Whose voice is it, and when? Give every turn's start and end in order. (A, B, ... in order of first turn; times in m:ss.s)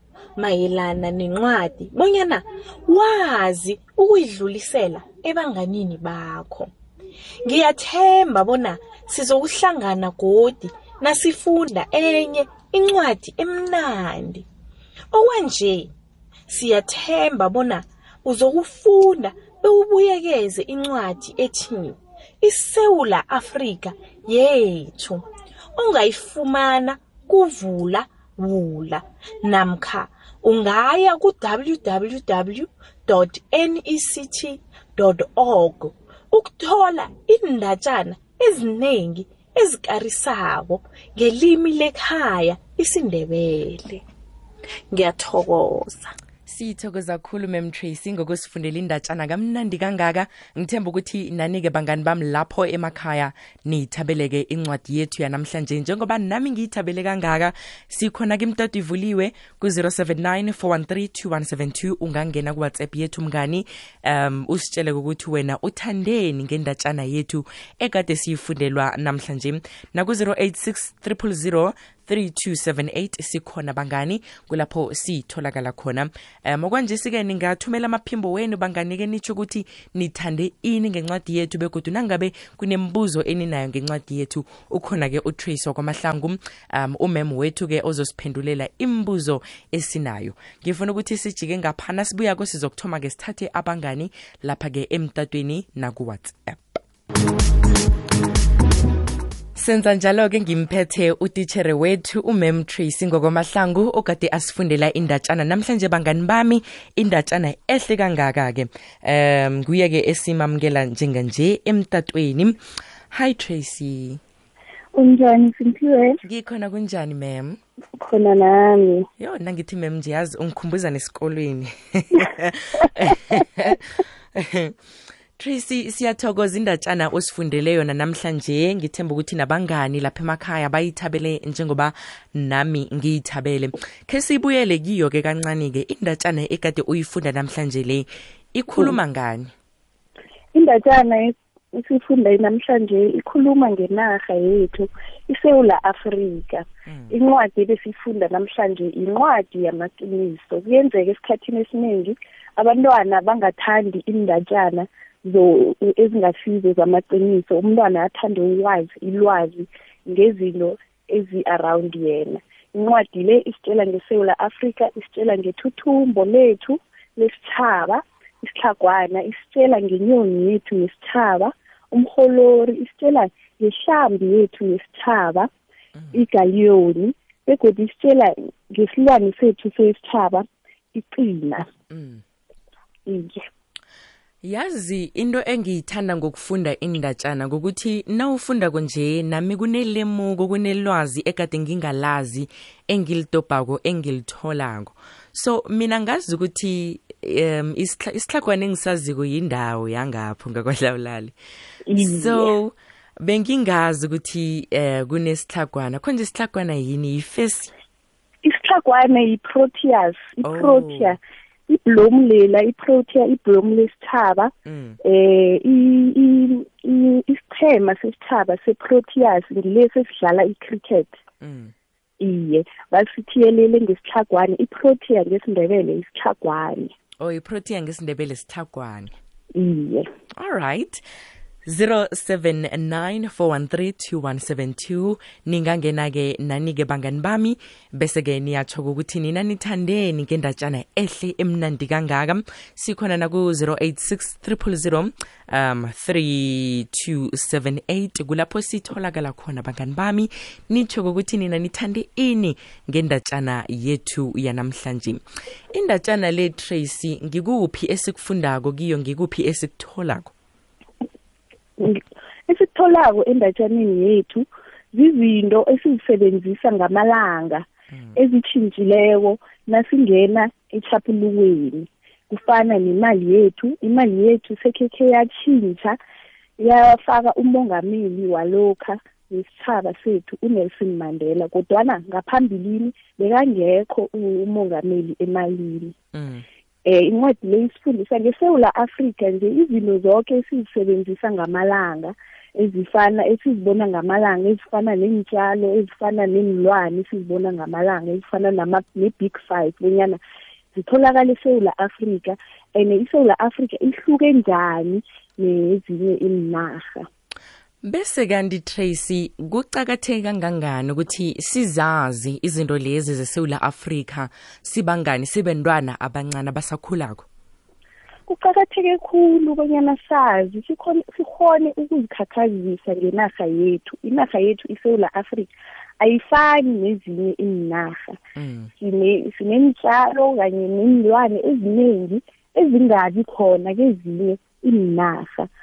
0:00.4-0:06.7 A
0:07.4-0:14.4 A
0:15.1-0:15.9 A
0:16.5-0:25.2 A
0:25.8-0:44.0 A
0:44.9-0:46.1 A
0:46.5-1:36.8 B
1:39.6-1:52.6 B
1:53.1-1:54.2 B
1:54.9-1:56.2 C
1:56.2-1:57.6 B
1:58.0-1:59.1 C
1:59.2-2:04.7 B
2:05.4-2:19.5 B
2:20.5-2:55.5 C
2:26.9-2:27.1 B
2:56.1-3:01.7 C
3:01.9-3:02.2 B
3:03.0-3:03.5 C
3:04.4-3:21.3 B
3:21.8-3:22.5 C
3:22.0-3:27.7 B
3:28.4-3:34.5 C
3:30.4-3:31.2 B
3:34.6-3:35.0 B
3:35.0-3:41.2 C
3:41.4-3:41.7 B
3:42.2-3:46.9 C
3:47.2-3:49.1 B
3:49.5-3:50.1 C
3:50.4-3:51.0 B
3:51.6-4:15.2 B
4:15.7-4:20.3 B
4:21.8-4:36.0 C
4:36.6-4:45.9 C
4:46.1-4:46.4 B
4:46.8-5:00.2 C
5:00.7-5:07.1 C
5:07.8-5:17.2 B
5:18.3-5:28.2 C
5:28.4-5:28.7 B
5:28.8-5:35.5 C